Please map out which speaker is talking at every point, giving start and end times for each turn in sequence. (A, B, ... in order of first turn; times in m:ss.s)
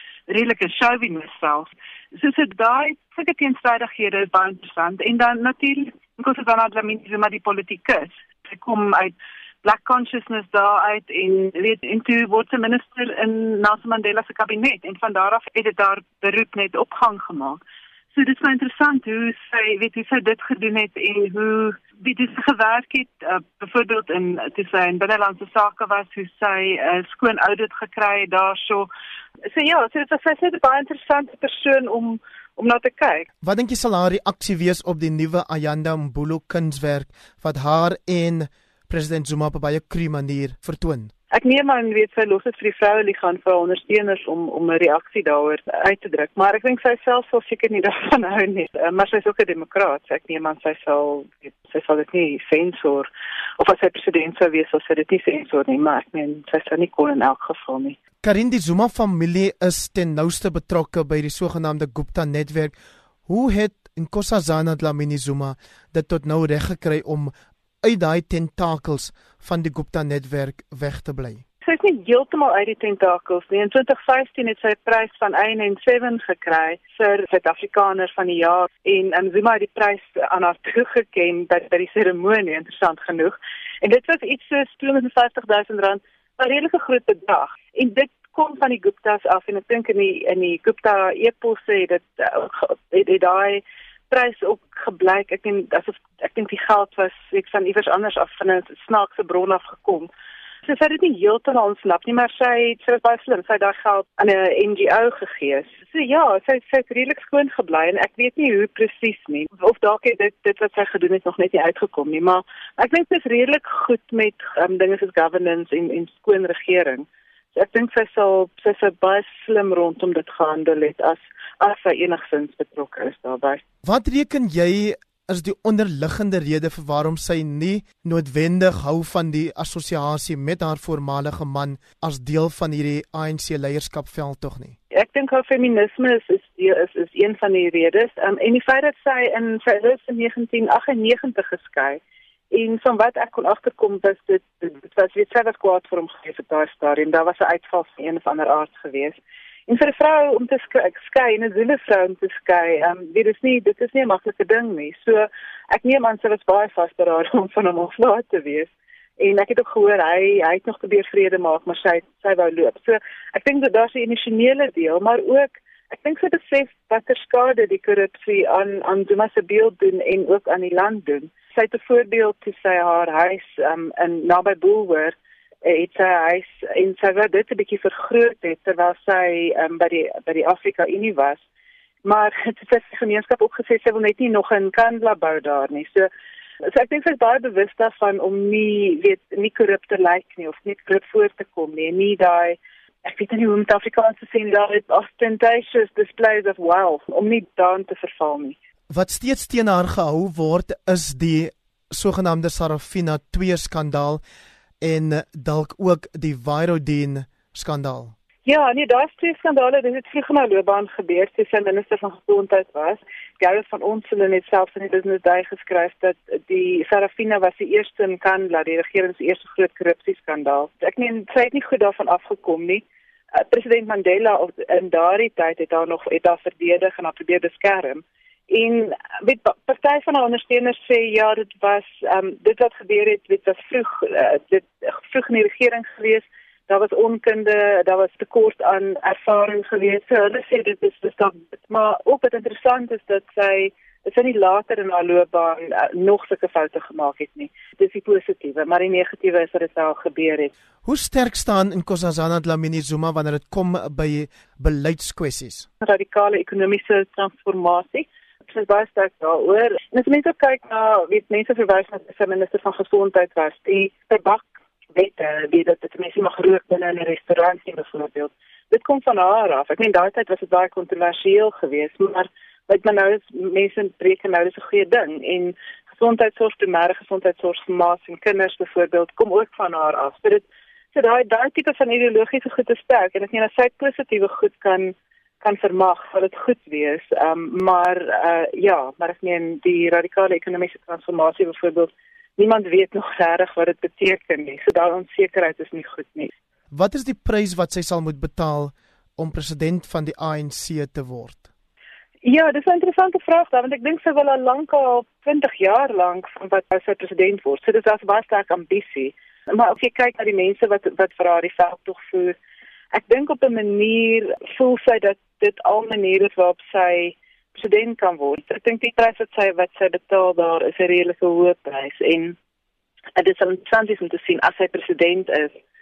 0:00.3-0:17.6 A
0:18.1-0:28.9 A
0:29.5-0:33.3 A
0:33.4-0:41.1 B
0:41.3-0:53.1 A
0:53.6-0:58.0 A
0:58.2-1:02.7 B
1:03.3-1:11.4 B
1:11.6-1:40.1 A
1:40.6-2:03.6 A
2:03.8-2:14.8 B
2:14.9-2:22.0 A
2:22.5-3:01.4 A
3:02.0-3:06.1 A
3:06.7-3:18.6 A
3:18.9-3:24.2 B
3:24.8-3:28.1 B
3:28.4-4:10.5 A
4:10.8-4:15.7 B
4:15.8-4:56.3 A
4:56.7-5:01.4 B
5:02.2-5:12.4 A
5:12.9-5:22.4 A
5:23.2-5:25.6 A